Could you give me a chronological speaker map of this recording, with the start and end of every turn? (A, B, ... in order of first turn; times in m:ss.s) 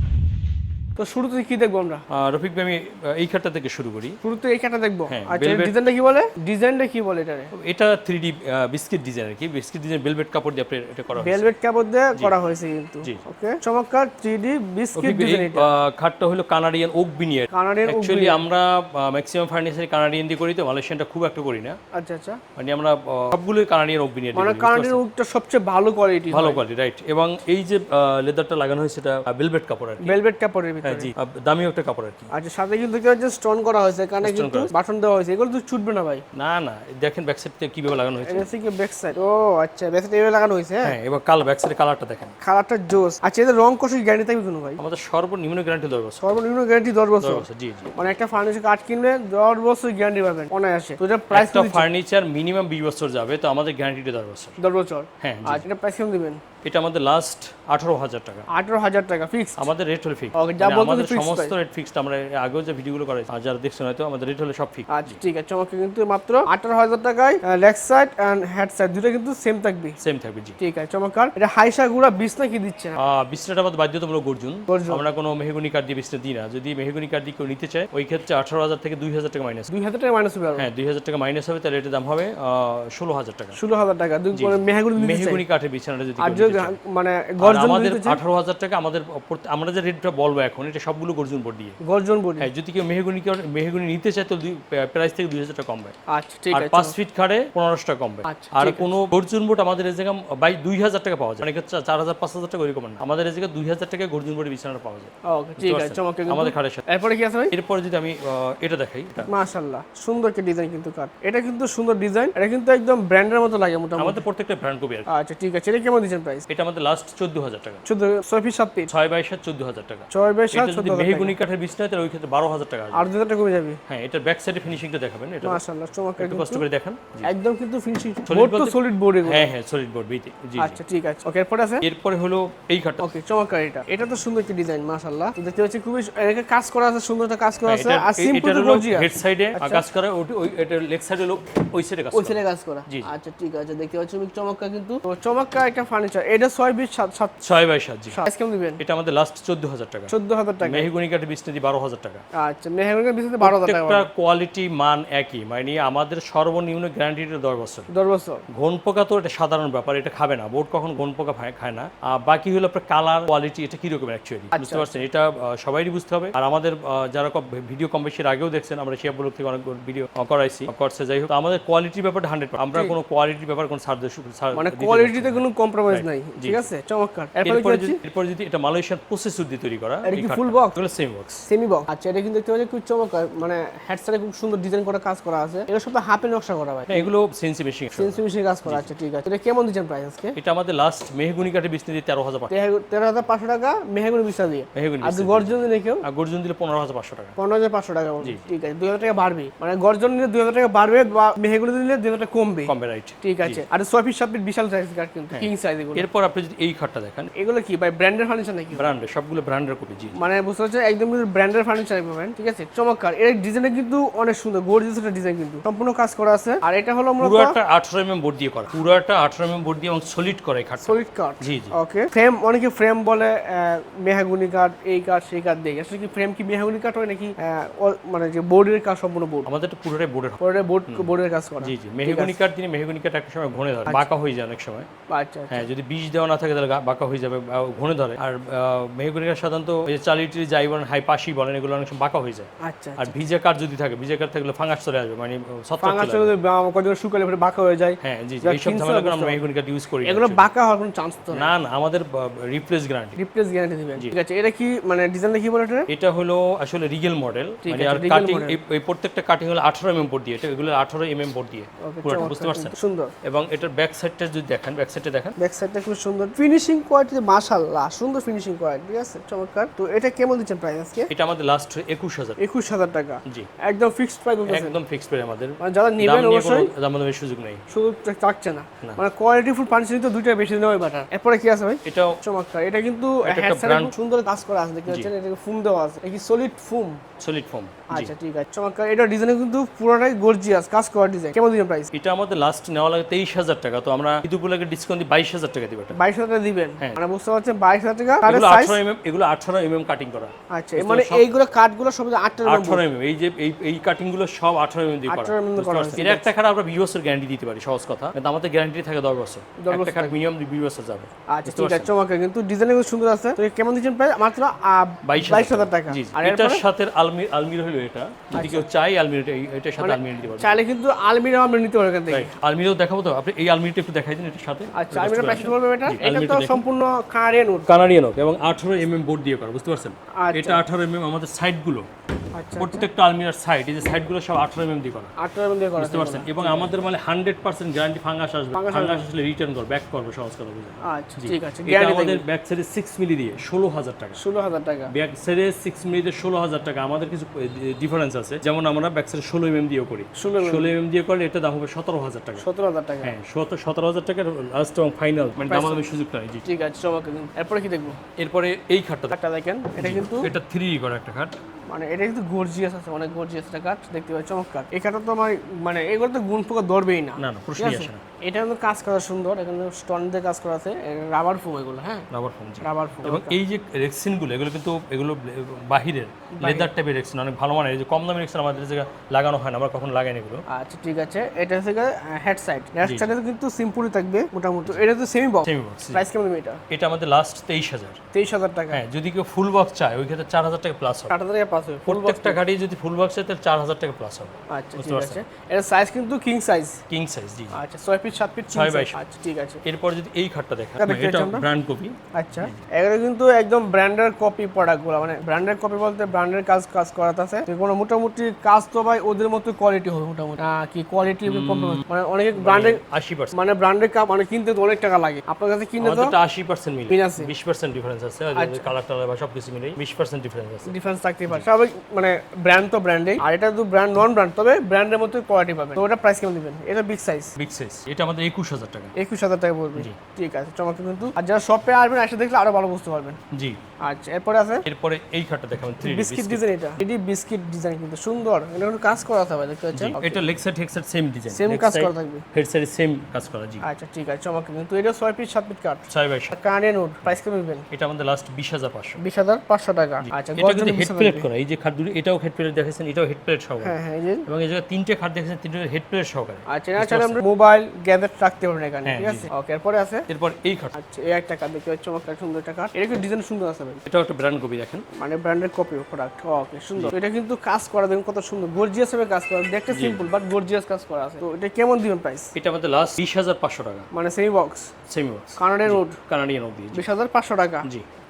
0:01.0-0:02.0 A
0:02.1-0:04.2 B
0:04.2-0:07.5 A
0:05.1-0:05.7 B
0:07.5-0:11.4 B
0:11.1-0:15.7 A
0:14.9-0:21.8 B
0:17.5-0:18.4 A
0:21.9-0:22.4 A
0:22.6-0:25.0 B
0:24.3-0:26.6 A
0:26.3-0:30.1 B
0:30.0-0:31.1 A
0:30.8-0:32.3 B
0:32.3-0:36.2 A
0:34.2-0:34.7 B
0:36.3-0:38.4 B
0:38.2-0:40.9 A
0:40.8-0:42.3 B
0:42.4-0:44.8 A
0:44.8-0:46.4 B
0:46.2-0:47.4 A
0:47.2-0:47.9 B
0:48.0-0:51.9 A
0:51.3-0:54.6 B
0:54.6-0:56.4 A
0:55.2-0:55.6 B
0:56.6-0:58.5 B
0:58.5-0:59.7 A
0:59.6-1:05.1 B
1:00.3-1:01.5 A
1:04.9-1:10.0 A
1:10.0-1:10.6 B
1:10.6-1:13.0 A
1:13.0-1:19.7 B
1:14.7-1:15.0 A
1:19.7-1:20.7 A
1:20.6-1:23.6 B
1:23.6-1:25.4 A
1:24.3-1:26.8 B
1:26.2-1:28.2 A
1:27.4-1:31.8 B
1:31.8-1:32.5 A
1:32.4-1:36.0 B
1:36.1-1:36.9 A
1:36.5-1:46.8 B
1:38.2-1:38.9 A
1:45.2-1:47.5 A
1:47.5-1:49.3 B
1:49.3-1:54.2 A
1:54.0-1:55.1 B
1:55.1-1:56.4 A
1:56.5-1:57.8 B
1:57.8-1:58.9 A
1:58.9-2:03.1 B
2:00.1-2:01.4 A
2:02.9-2:03.8 A
2:03.9-2:05.6 B
2:05.4-2:06.6 A
2:06.2-2:07.3 B
2:07.2-2:09.5 A
2:08.2-2:10.8 B
2:10.6-2:11.8 A
2:11.8-2:13.1 B
2:13.0-2:19.8 A
2:17.6-2:23.1 B
2:22.1-2:27.4 A
2:27.4-2:28.2 B
2:28.1-2:28.8 A
2:28.8-2:32.2 B
2:30.1-2:30.9 A
2:32.4-2:34.1 A
2:33.4-2:37.9 B
2:37.9-2:38.4 A
2:38.5-2:56.7 B
2:44.5-2:45.0 A
2:54.5-2:58.0 A
2:57.4-3:01.4 B
3:00.0-3:00.8 A
3:01.5-3:07.1 A
3:06.9-3:08.9 B
3:07.9-3:10.4 A
3:10.4-3:12.5 B
3:12.5-3:16.0 A
3:14.7-3:17.4 B
3:17.4-3:26.1 A
3:22.7-3:23.6 B
3:25.3-3:27.3 B
3:27.4-3:28.9 A
3:28.8-3:30.2 B
3:30.2-3:37.6 A
3:37.2-3:41.7 B
3:40.8-3:49.5 A
3:49.4-3:51.1 B
3:50.4-3:52.4 A
3:51.6-3:54.9 B
3:55.1-3:55.7 A
3:55.5-4:06.3 B
4:02.6-4:03.1 A
4:05.8-4:09.4 A
4:08.0-4:10.5 B
4:10.0-4:11.5 A
4:11.3-4:13.2 B
4:13.2-4:15.9 A
4:15.9-4:25.3 B
4:17.6-4:18.6 A
4:21.8-4:23.1 A
4:25.4-4:31.1 A
4:31.1-4:32.4 B
4:32.4-4:34.8 A
4:34.5-4:37.6 B
4:35.6-4:36.7 A
4:37.7-4:47.0 A
4:41.8-4:42.2 B
4:43.2-4:43.9 B
4:47.2-4:48.1 B
4:47.9-4:51.9 A
4:51.9-4:56.0 B
4:55.9-4:58.8 A
4:58.2-5:01.3 B
5:00.5-5:02.8 A
5:02.4-5:11.9 B
5:05.1-5:06.3 A
5:09.6-5:10.1 A
5:11.3-5:16.6 A
5:15.0-5:20.6 B
5:18.3-5:18.6 A
5:19.8-5:22.3 A
5:22.1-5:26.6 B
5:24.7-5:27.7 A
5:27.7-5:31.9 B
5:30.2-5:30.6 A
5:32.3-5:32.9 A
5:32.6-5:35.1 B
5:35.2-5:36.7 A
5:35.8-5:44.2 B
5:38.5-5:39.1 A
5:40.8-5:42.2 A
5:44.2-5:44.9 A
5:44.9-5:52.4 B
5:50.2-5:50.7 A
5:52.4-5:53.1 A
5:53.0-5:56.5 B
5:55.4-5:55.9 A
5:56.4-5:58.0 A
5:58.2-5:59.2 B
5:59.1-6:00.3 A
5:59.7-6:01.4 B
6:01.7-6:12.1 A
6:07.2-6:08.0 B
6:12.1-6:20.4 B
6:12.6-6:13.4 A
6:16.4-6:16.7 A
6:20.5-6:26.6 A
6:22.8-6:23.1 B
6:25.4-6:26.0 B
6:26.7-6:28.0 B
6:28.1-6:28.8 A
6:28.7-6:31.1 B
6:31.1-6:32.4 A
6:31.8-6:35.2 B
6:34.5-6:36.8 A
6:36.9-6:37.6 B
6:37.5-6:39.6 A
6:38.5-6:39.0 B
6:39.6-6:42.6 B
6:40.8-6:41.5 A
6:42.1-6:52.8 A
6:51.2-6:51.8 B
6:52.4-6:53.4 B
6:53.3-6:56.1 A
6:55.8-7:00.7 B
6:56.9-6:57.3 A
6:58.3-6:58.7 A
7:00.6-7:07.3 A
7:07.4-7:08.9 B
7:08.9-7:13.2 A
7:13.3-7:13.6 B
7:13.8-7:14.6 A
7:14.6-7:16.4 B
7:15.8-7:20.2 A
7:19.7-7:23.6 B
7:21.3-7:22.2 A
7:23.6-7:27.6 A
7:25.9-7:26.3 B
7:27.7-7:29.0 B
7:29.0-7:31.3 A
7:30.0-7:33.7 B
7:33.6-7:34.3 A
7:34.2-7:37.2 B
7:36.5-7:40.0 A
7:38.8-7:39.3 B
7:40.1-7:40.7 B
7:40.7-7:43.8 A
7:43.8-7:44.8 B
7:45.0-7:52.3 A
7:49.7-7:50.0 B
7:52.3-7:53.9 B
7:53.9-7:54.7 A
7:54.9-7:56.8 B
7:55.4-7:56.0 A
7:56.7-7:57.7 A